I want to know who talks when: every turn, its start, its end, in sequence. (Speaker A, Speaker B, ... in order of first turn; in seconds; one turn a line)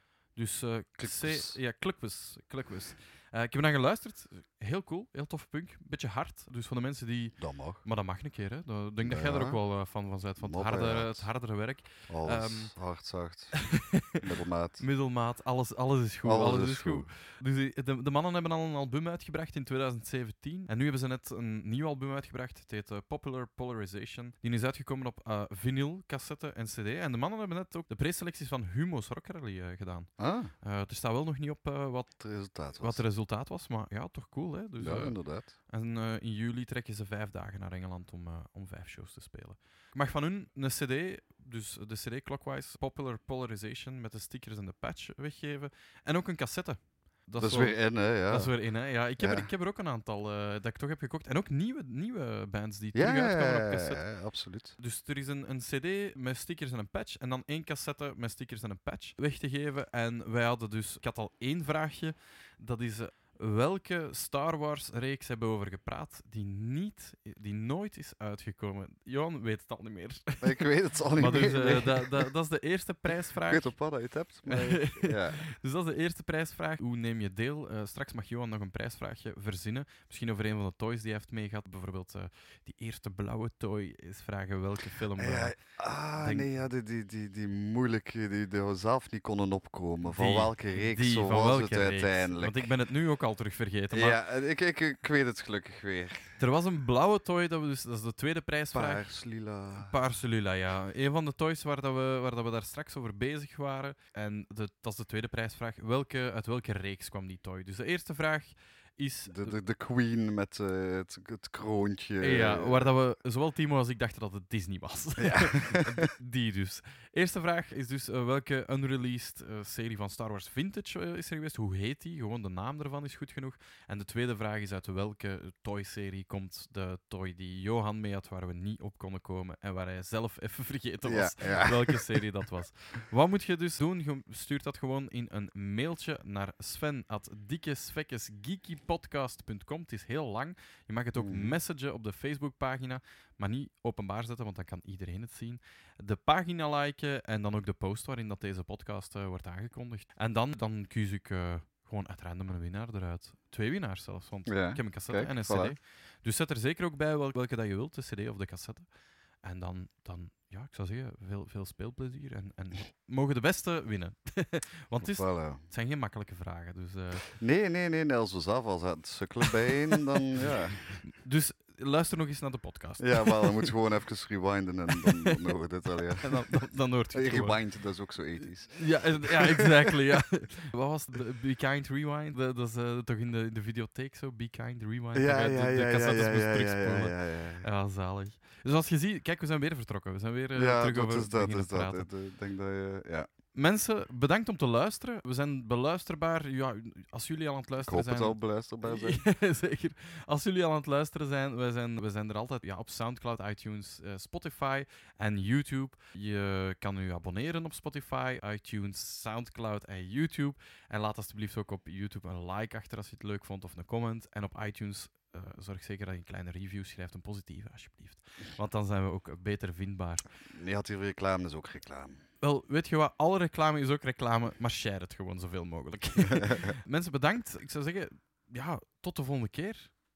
Speaker A: 0.4-12.7
Speaker B: 1.0-1.6
Speaker B: 7.4-7.8
Speaker B: 9.0-9.6
Speaker B: 10.4-11.3
Speaker B: 12.1-13.6
Speaker A: 13.5-14.2
Speaker B: 14.2-14.8
Speaker A: 14.8-30.1
Speaker B: 16.2-17.1
Speaker B: 30.2-30.5
Speaker A: 30.6-32.2
Speaker B: 32.2-33.0
Speaker A: 32.8-54.0
Speaker B: 34.8-35.5
Speaker B: 47.4-48.5
Speaker B: 49.2-49.5
Speaker B: 53.0-54.8
Speaker A: 54.8-70.6
Speaker B: 70.4-72.3
Speaker A: 71.2-73.7
Speaker B: 73.1-75.4
Speaker A: 74.5-85.6
Speaker B: 85.2-92.7
Speaker A: 86.2-86.5
Speaker A: 90.1-94.2
Speaker B: 93.9-96.3
Speaker A: 96.4-99.0
Speaker B: 98.7-99.9
Speaker A: 99.8-109.5
Speaker B: 109.3-112.9
Speaker A: 112.2-158.9
Speaker B: 115.2-116.1
Speaker B: 131.0-132.1
Speaker B: 141.1-141.6
Speaker B: 154.5-155.8
Speaker A: 159.4-167.3
Speaker B: 165.0-165.6
Speaker B: 167.3-170.9
Speaker A: 170.2-173.7
Speaker B: 173.0-176.4
Speaker A: 174.9-175.5
Speaker A: 176.2-177.6
Speaker B: 177.1-180.0
Speaker A: 178.7-192.1
Speaker B: 185.2-187.7
Speaker B: 190.5-193.3
Speaker A: 193.6-220.3
Speaker B: 197.8-199.3
Speaker B: 220.5-222.2
Speaker A: 222.4-229.9
Speaker B: 226.3-226.7